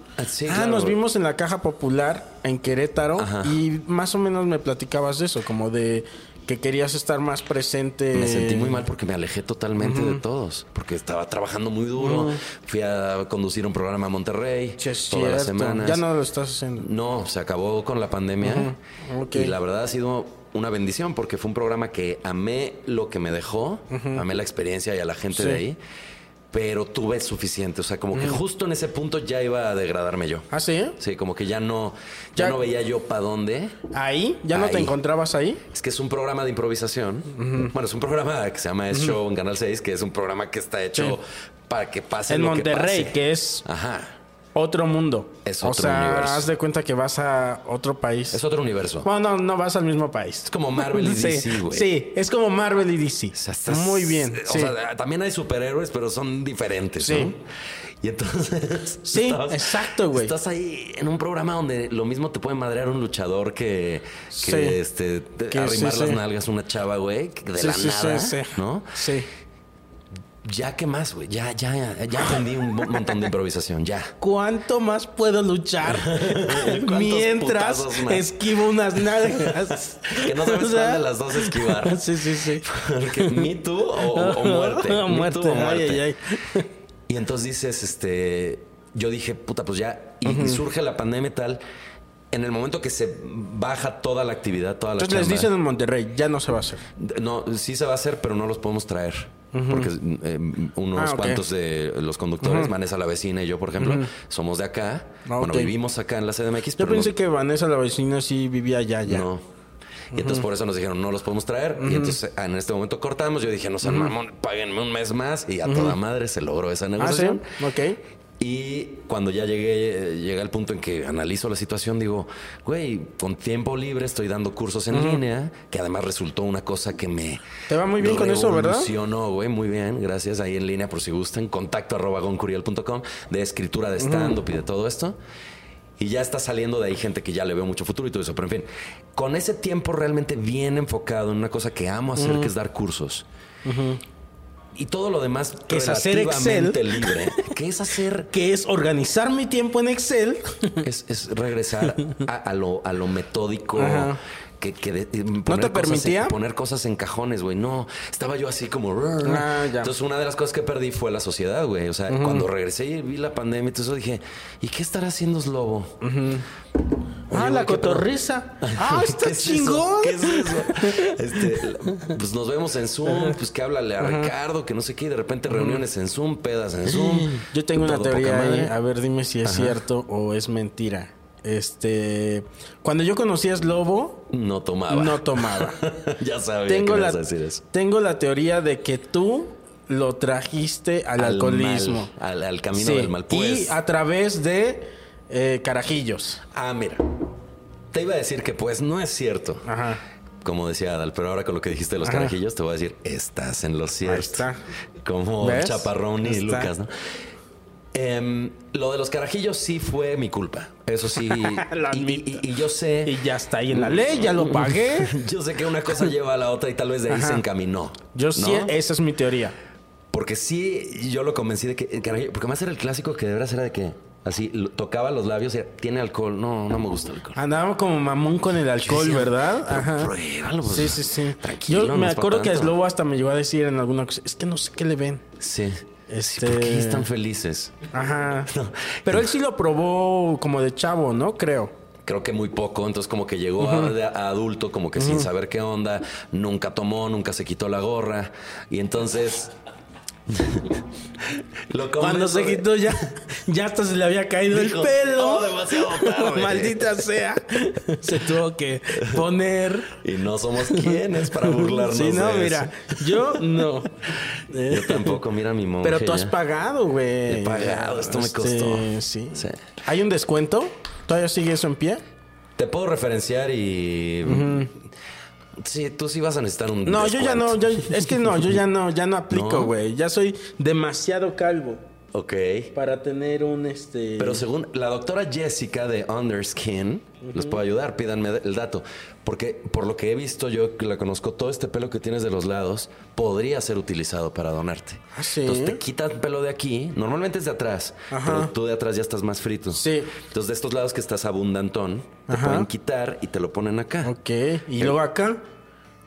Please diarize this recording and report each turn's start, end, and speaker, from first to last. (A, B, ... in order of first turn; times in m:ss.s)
0:00.2-0:01.0 A
0:00.4-0:08.8 B
0:03.2-0:03.6 A
0:08.1-0:16.0 A
0:09.8-0:10.2 B
0:12.0-0:12.4 B
0:14.8-0:16.9 B
0:16.8-0:18.7 A
0:18.4-0:19.5 B
0:19.3-0:25.8 A
0:23.9-0:24.2 B
0:25.3-0:25.6 B
0:26.5-0:33.8 A
0:30.5-0:31.0 B
0:33.9-0:35.6 B
0:34.5-0:35.0 A
0:35.7-0:44.1 A
0:37.4-0:37.7 B
0:42.3-0:43.6 B
0:44.5-0:48.4 B
0:45.4-0:46.5 A
0:48.3-0:49.1 A
0:49.0-0:54.7 B
0:50.4-0:51.9 A
0:53.3-0:57.4 A
0:57.0-0:57.4 B
0:58.0-1:09.0 A
0:59.0-1:00.3 B
1:04.3-1:04.8 B
1:05.5-1:06.2 B
1:07.6-1:09.3 B
1:10.4-1:14.1 A
1:14.2-1:26.7 B
1:15.8-1:18.4 A
1:19.1-1:26.0 A
1:27.1-1:31.6 A
1:30.2-1:30.6 B
1:32.3-1:35.5 A
1:35.0-1:36.8 B
1:37.0-1:47.1 A
1:39.5-1:39.9 B
1:41.0-1:41.4 B
1:42.4-1:42.7 B
1:43.8-1:44.1 B
1:45.2-1:45.7 B
1:46.8-1:49.3 B
1:49.0-1:49.4 A
1:50.1-1:57.5 A
1:50.1-1:50.4 B
1:51.8-1:52.2 B
1:53.8-1:54.1 B
1:55.6-1:56.0 B
1:57.0-1:58.0 B
1:58.4-2:07.4 A
2:04.9-2:05.2 B
2:07.7-2:08.9 B
2:08.0-2:15.2 A
2:14.0-2:14.4 B
2:16.0-2:23.2 A
2:22.2-2:22.5 B
2:23.6-2:24.0 B
2:24.7-2:28.3 A
2:25.7-2:27.5 B
2:28.3-2:30.8 B
2:30.8-2:46.0 A
2:33.7-2:34.2 B
2:35.5-2:36.4 B
2:39.2-2:39.9 B
2:42.1-2:42.5 B
2:46.0-2:46.4 B
2:47.3-2:48.1 A
2:47.3-2:52.1 B
2:48.6-2:58.7 A
2:53.1-2:53.3 B
2:54.0-2:54.3 B
2:55.5-2:55.8 B
2:56.9-3:04.2 B
2:59.4-2:59.8 A
3:04.3-3:07.6 A
3:04.9-3:05.8 B
3:06.7-3:12.1 B
3:11.2-3:13.8 A
3:12.7-3:16.4 B
3:16.5-3:17.2 A
3:17.9-3:19.6 A
3:19.6-3:20.0 B
3:20.4-3:24.5 A
3:22.0-3:22.4 B
3:24.0-3:24.6 B
3:25.0-3:26.9 A
3:25.4-3:26.7 B
3:27.9-3:38.7 A
3:31.2-3:32.4 B
3:33.0-3:35.2 B
3:37.1-3:37.4 B
3:38.1-3:39.6 B
3:40.1-3:47.4 A
3:47.4-3:50.1 B
3:48.8-3:52.8 A
3:50.6-3:55.2 B
3:55.4-3:57.9 A
3:56.1-3:57.1 B
3:57.9-3:58.5 B
3:58.5-3:59.2 A
3:59.0-4:01.7 B
4:02.0-4:09.5 A
4:03.6-4:03.9 B
4:05.0-4:05.3 B
4:10.3-4:13.0 A
4:12.0-4:19.9 B
4:14.5-4:17.0 A
4:18.9-4:19.2 A
4:19.9-4:23.6 A
4:20.6-4:24.0 B
4:24.5-4:25.2 B
4:24.7-4:26.3 A
4:25.8-4:32.0 B
4:27.3-4:29.6 A
4:32.6-4:34.8 A
4:34.2-4:34.7 B
4:35.6-4:38.5 A
4:36.8-4:41.8 B
4:39.3-4:39.7 A
4:42.1-4:42.7 A
4:42.7-4:44.4 B
4:44.2-5:04.1 A
4:47.2-4:47.6 B
4:55.1-4:55.8 B
4:58.1-4:58.5 B
4:59.7-5:00.1 B
5:02.3-5:02.7 B
5:04.0-5:05.4 B